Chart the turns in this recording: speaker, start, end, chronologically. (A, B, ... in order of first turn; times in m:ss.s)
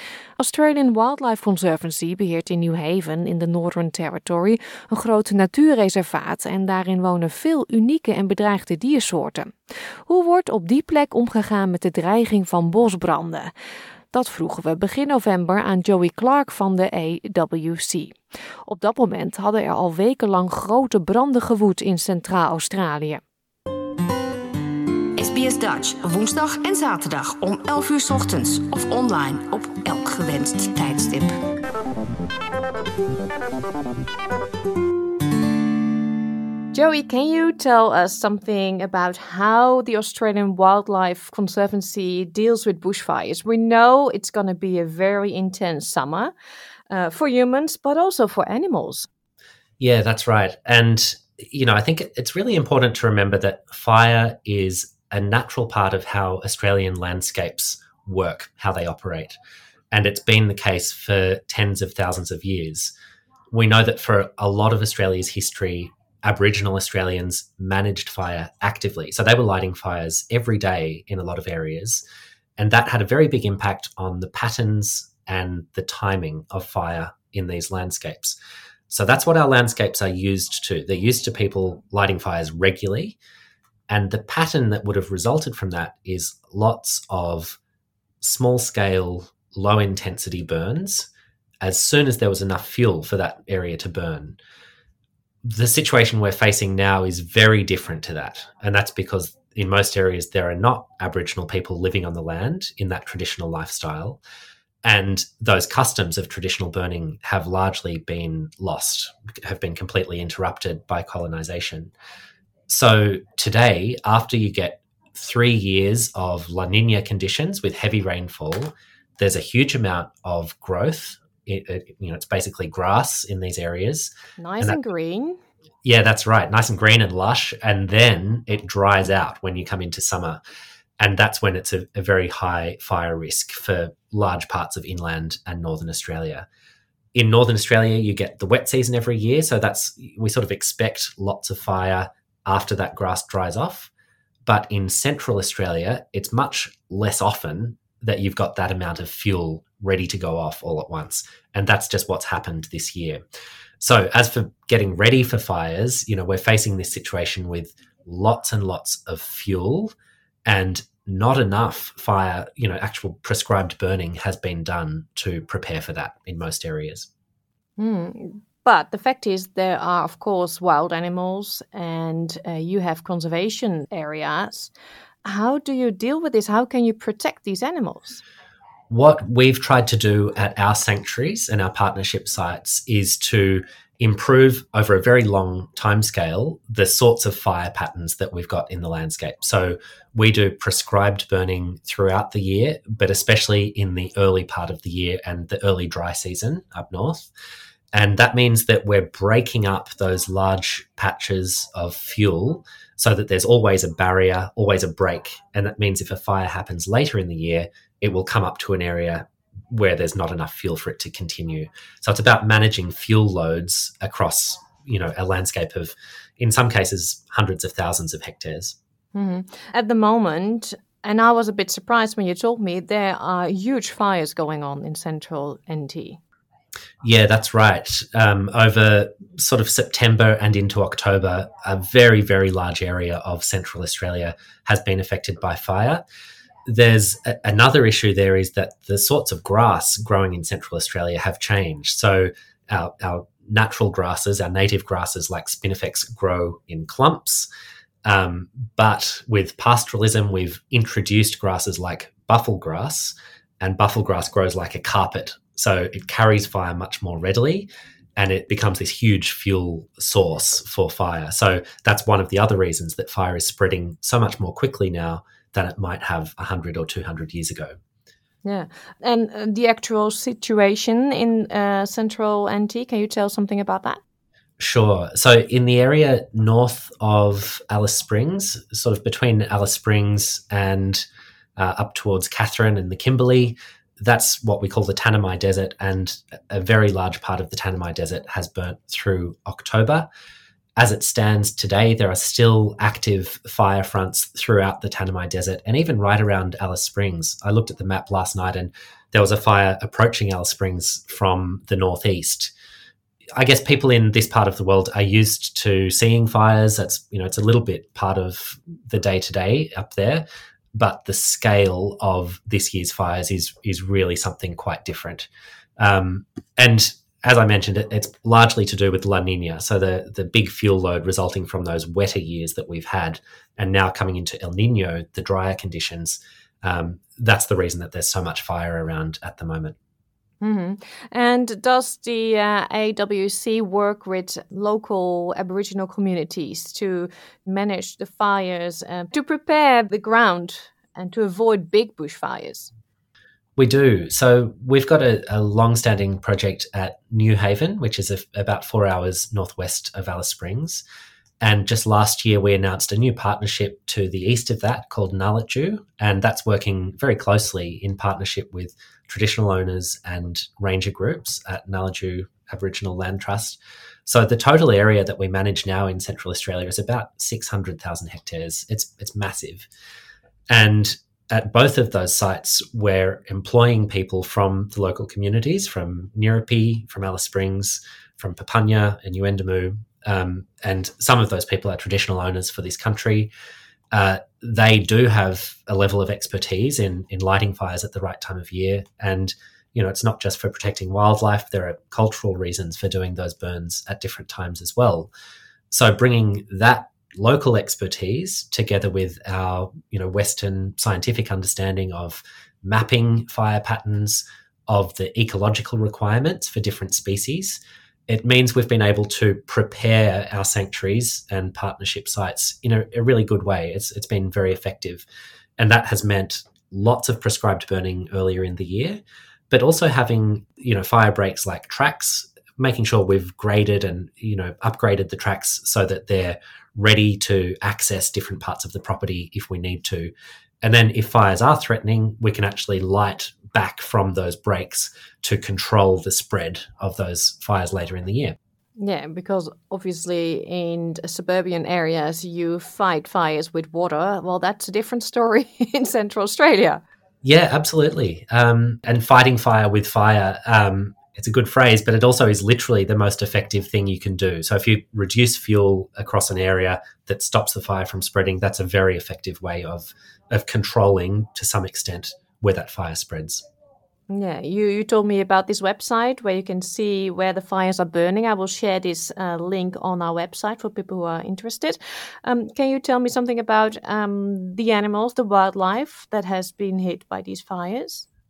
0:00.4-0:09.6 A
0:10.1-0:13.5 A
0:14.1-0:23.2 A
0:25.2-0:31.3 B
0:36.7-0:46.3 A
0:46.9-0:49.1 A
0:49.8-0:59.4 C
0:59.9-1:02.9 C
1:03.5-1:12.0 C
1:12.6-1:18.4 C
1:18.9-1:23.2 C
1:23.9-1:27.6 C
1:28.2-1:31.1 C
1:31.6-1:34.4 C
1:35.4-1:44.2 C
1:44.8-1:51.9 C
1:52.7-2:04.8 C
2:04.4-2:05.4 A
2:05.8-2:10.4 C
2:11.0-2:16.4 C
2:17.1-2:23.9 C
2:24.4-2:33.2 C
2:33.8-2:40.0 C
2:40.4-2:47.1 C
2:47.8-2:54.7 A
2:55.2-2:58.2 A
2:58.9-3:17.3 C
3:17.9-3:38.8 C
3:39.1-3:46.2 A
3:47.0-3:56.0 C
3:56.7-4:07.5 C
4:08.1-4:27.8 C
4:28.4-4:34.0 A
4:34.6-4:41.1 C
4:41.6-4:50.1 C
4:50.8-5:02.5 C
5:03.4-5:15.3 C
5:15.8-5:29.8 C
5:30.4-5:42.7 A
5:43.6-5:50.8 C
5:51.4-6:09.7 C
6:10.5-6:23.3 C
6:23.9-6:35.1 C
6:35.7-6:55.1 C
6:55.6-7:18.4 C
7:18.8-7:26.8 A
7:27.2-7:43.4 C
7:44.1-7:58.1 A